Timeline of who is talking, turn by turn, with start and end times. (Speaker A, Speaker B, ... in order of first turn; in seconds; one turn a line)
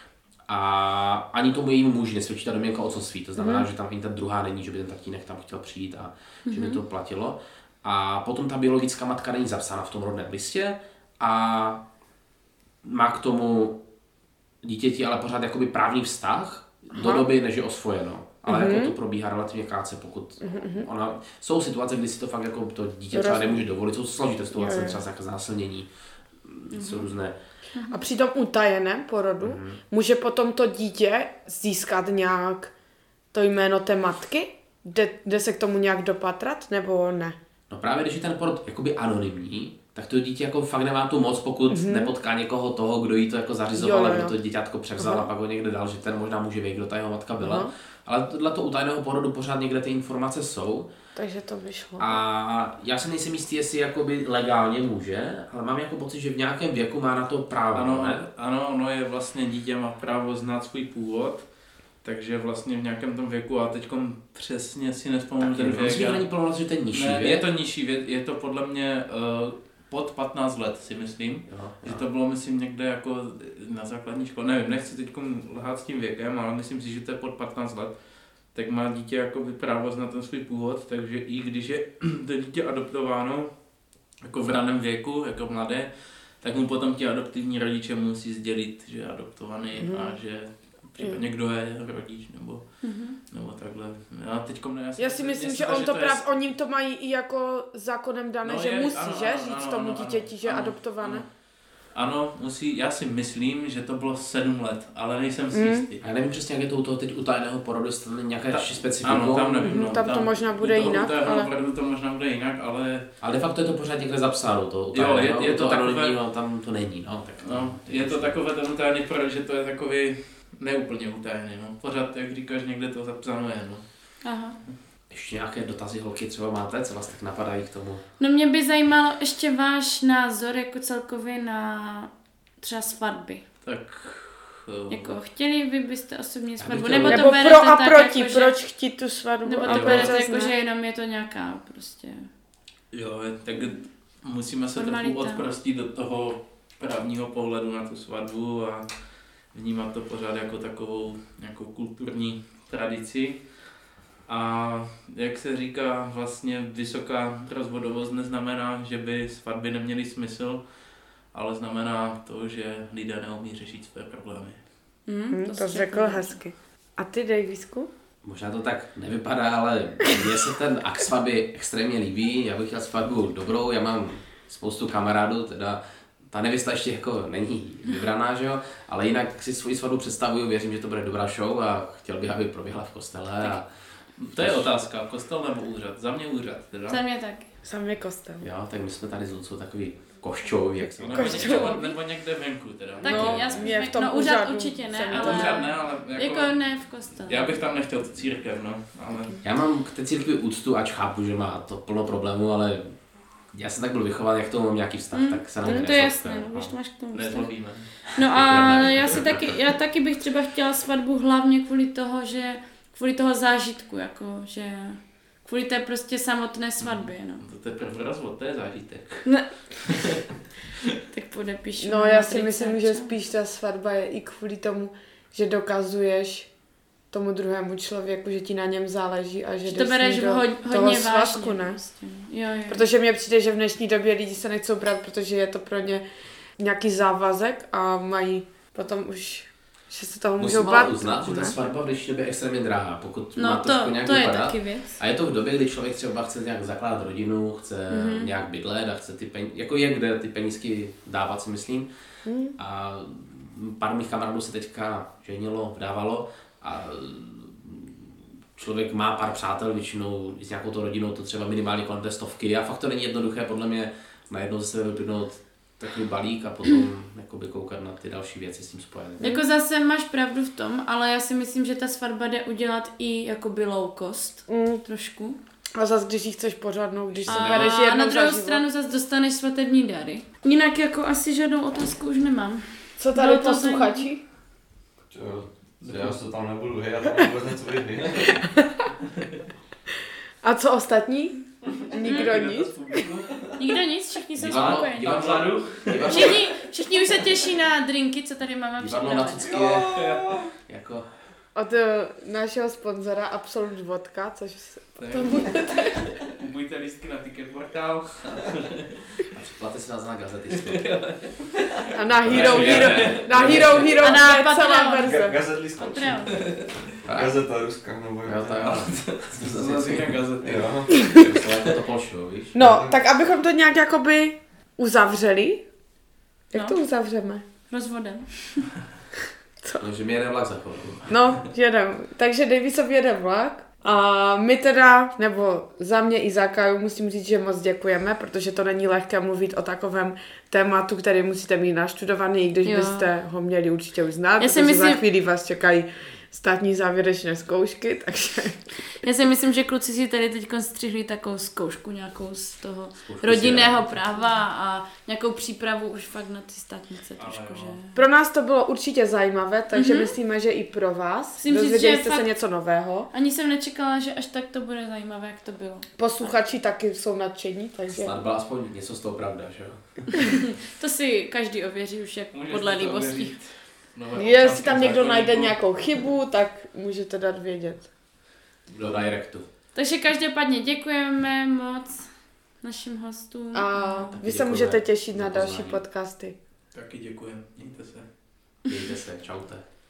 Speaker A: 0.5-11.8
Speaker B: 3.4-3.7
Speaker C: 6.5-6.8
Speaker A: 12.8-13.8
Speaker A: 14.6-25.9
Speaker B: 16.9-17.3
Speaker B: 18.4-18.9
Speaker B: 20.4-20.9
Speaker B: 23.1-23.6
Speaker B: 24.5-25.0
Speaker A: 26.4-27.3
Speaker C: 26.7-27.0
Speaker C: 27.7-28.0
Speaker B: 27.9-32.7
Speaker A: 29.4-29.8
Speaker B: 33.3-37.4
Speaker A: 37.7-50.9
Speaker B: 41.7-42.1
Speaker B: 43.8-44.3
Speaker B: 45.0-45.3
Speaker B: 47.4-47.7
Speaker B: 51.1-52.2
Speaker A: 52.0-58.2
Speaker D: 57.7-61.5
Speaker D: 62.0-66.2
Speaker A: 65.4-67.5
Speaker D: 66.9-78.0
Speaker A: 71.5-72.0
Speaker D: 78.5-83.5
Speaker D: 84.2-96.2
Speaker B: 89.8-90.2
Speaker B: 91.0-91.2
Speaker C: 92.8-93.2
Speaker B: 95.0-101.2
Speaker D: 98.4-101.3
Speaker D: 101.9-106.0
Speaker B: 105.5-105.8
Speaker A: 106.0-109.8
Speaker D: 108.5-113.1
Speaker B: 109.6-111.5
Speaker A: 113.2-118.3
Speaker D: 114.9-116.1
Speaker D: 117.4-123.8
Speaker C: 124.2-124.6
Speaker A: 125.1-128.0
Speaker C: 128.2-133.4
Speaker D: 133.6-135.2
Speaker C: 134.9-138.5
Speaker A: 136.6-137.4
Speaker B: 137.0-140.5
Speaker C: 139.4-142.3
Speaker D: 139.7-140.2
Speaker D: 142.9-148.9
Speaker C: 144.8-145.4
Speaker D: 149.5-153.4
Speaker D: 154.3-160.6
Speaker D: 161.3-164.6
Speaker C: 165.1-166.4
Speaker B: 165.3-167.9
Speaker A: 168.2-183.7
Speaker D: 184.2-187.0
Speaker A: 184.3-184.7
Speaker C: 186.9-187.5
Speaker B: 187.6-188.4
Speaker A: 188.4-191.8
Speaker D: 191.0-193.6
Speaker B: 191.1-191.9
Speaker B: 193.0-195.6
Speaker C: 193.0-197.6
Speaker A: 193.0-193.6
Speaker D: 195.1-199.4
Speaker A: 199.4-202.9
Speaker A: 203.5-206.7
Speaker C: 205.1-217.4
Speaker D: 207.1-208.0
Speaker A: 208.2-209.4
Speaker D: 216.8-220.2
Speaker C: 221.1-223.1
Speaker B: 221.8-226.5
Speaker B: 227.1-231.8
Speaker C: 229.7-232.8
Speaker B: 232.7-236.0
Speaker B: 236.6-241.6
Speaker A: 240.4-251.9
Speaker C: 243.3-245.0
Speaker C: 247.9-248.3
Speaker B: 252.2-252.5
Speaker A: 252.6-269.3
Speaker C: 269.2-275.4
Speaker B: 274.5-274.8
Speaker B: 275.8-278.6
Speaker A: 277.3-277.7
Speaker C: 277.3-284.1
Speaker B: 283.0-284.2
Speaker E: 285.1-288.2
Speaker D: 285.8-286.2
Speaker B: 288.3-288.7
Speaker B: 290.4-293.1
Speaker D: 291.9-293.6
Speaker C: 292.0-292.3
Speaker C: 293.5-295.2
Speaker A: 294.4-296.5
Speaker D: 294.4-296.4
Speaker C: 296.1-299.6
Speaker A: 298.8-301.1
Speaker D: 299.6-300.4
Speaker B: 301.5-306.2
Speaker D: 305.0-309.2
Speaker A: 309.3-310.8
Speaker D: 310.5-314.0
Speaker B: 311.9-315.4
Speaker A: 312.2-313.9
Speaker C: 314.0-316.3
Speaker E: 315.0-316.2
Speaker D: 316.2-316.8
Speaker A: 317.0-317.4
Speaker E: 317.1-318.8
Speaker A: 318.2-320.2
Speaker D: 318.6-321.7
Speaker E: 320.4-320.9
Speaker B: 320.9-321.4
Speaker A: 321.1-322.6
Speaker B: 322.5-325.6
Speaker E: 322.6-323.0
Speaker B: 326.5-327.4
Speaker C: 327.7-328.6
Speaker A: 329.8-331.1
Speaker B: 331.1-348.6
Speaker C: 342.6-343.1
Speaker C: 344.4-345.0
Speaker C: 349.0-358.0
Speaker A: 353.0-353.9
Speaker D: 357.2-357.8
Speaker B: 357.9-363.1
Speaker C: 359.7-360.1
Speaker C: 361.4-362.3
Speaker C: 363.1-366.3
Speaker B: 366.0-368.1
Speaker A: 367.9-370.1
Speaker C: 370.3-373.3
Speaker D: 372.3-375.7
Speaker B: 374.1-377.9
Speaker A: 378.7-379.5
Speaker C: 379.7-384.1
Speaker B: 383.5-386.4
Speaker A: 384.2-385.8
Speaker D: 386.7-388.1
Speaker A: 388.6-389.6